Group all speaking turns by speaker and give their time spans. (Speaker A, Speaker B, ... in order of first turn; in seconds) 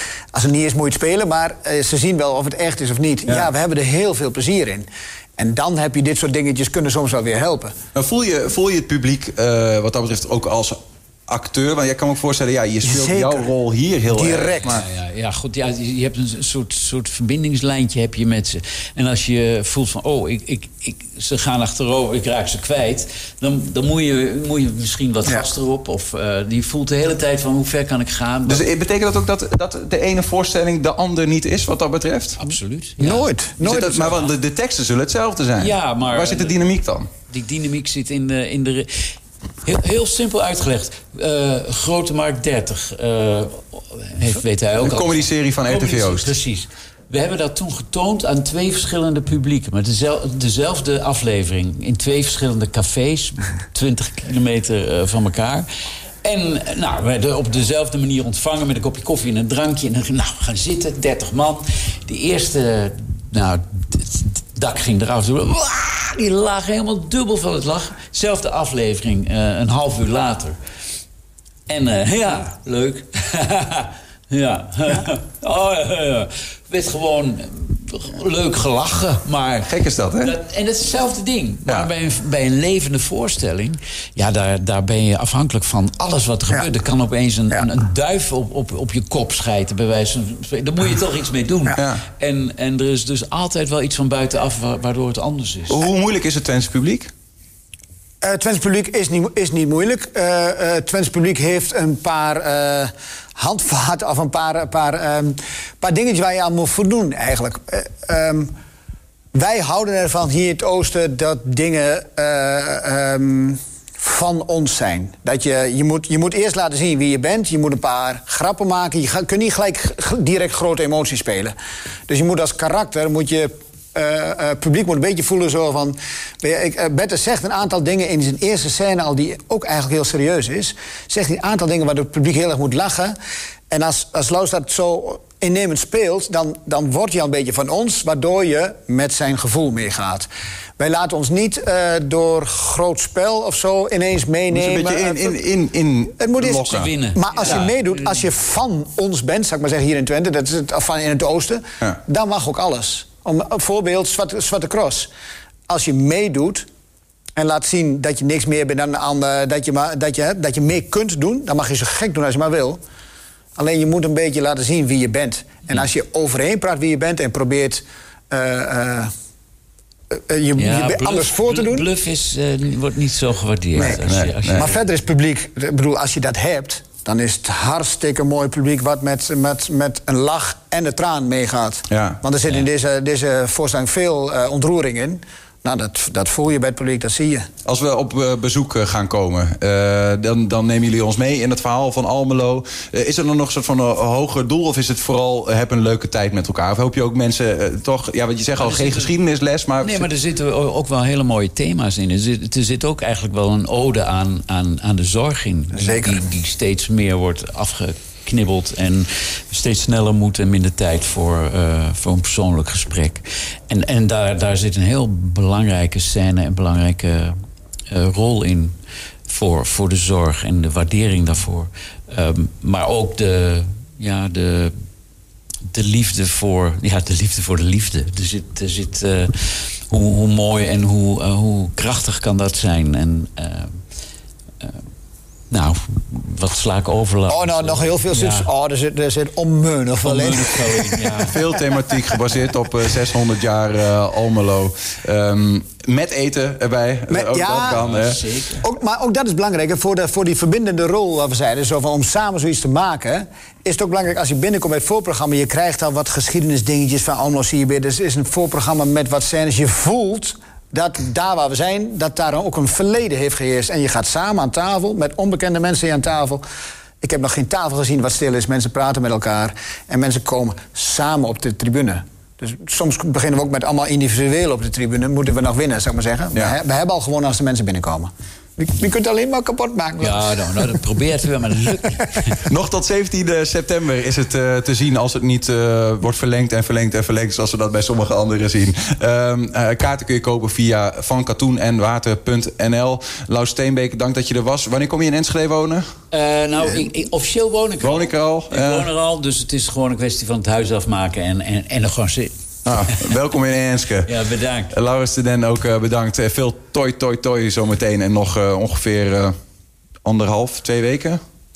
Speaker A: 0.3-7.8, 12.8-13.5, 14.1-14.8, 33.0-34.3, 98.2-108.5, 109.3-121.5, 122.1-133.2, 133.7-140.3, 140.8-145.4, 146.2-155.1, 155.7-156.7, 157.4-162.8, 163.6-169.1, 170.1-171.9, 173.8-187.5, 205.7-206.3, 237.3-241.2, 247.1-247.8, 248.6-266.4, 267.0-280.8, 281.9-282.2
Speaker B: 8.0-14.8, 28.5-32.4, 33.6-37.1, 44.8-46.3, 79.7-80.3, 91.8-92.0, 95.7-97.1, 144.5-146.9, 174.0-174.7, 181.9-182.2, 187.7-200.1, 241.3-248.2, 282.4-295.9, 297.8-298.9, 302.7-304.1, 304.7-309.4, 310.1-311.2
Speaker C: 14.6-28.7, 32.4-33.3, 35.6-36.6, 37.3-55.7, 56.2-70.6, 71.7-95.8, 146.7-148.2, 170.6-174.8, 198.6-199.1, 199.8-217.4, 217.9-218.7, 219.3-224.8, 225.7-233.8, 235.5-238.5, 240.0-241.4, 247.6-248.6, 280.0-282.4, 296.1-302.3, 304.1-304.8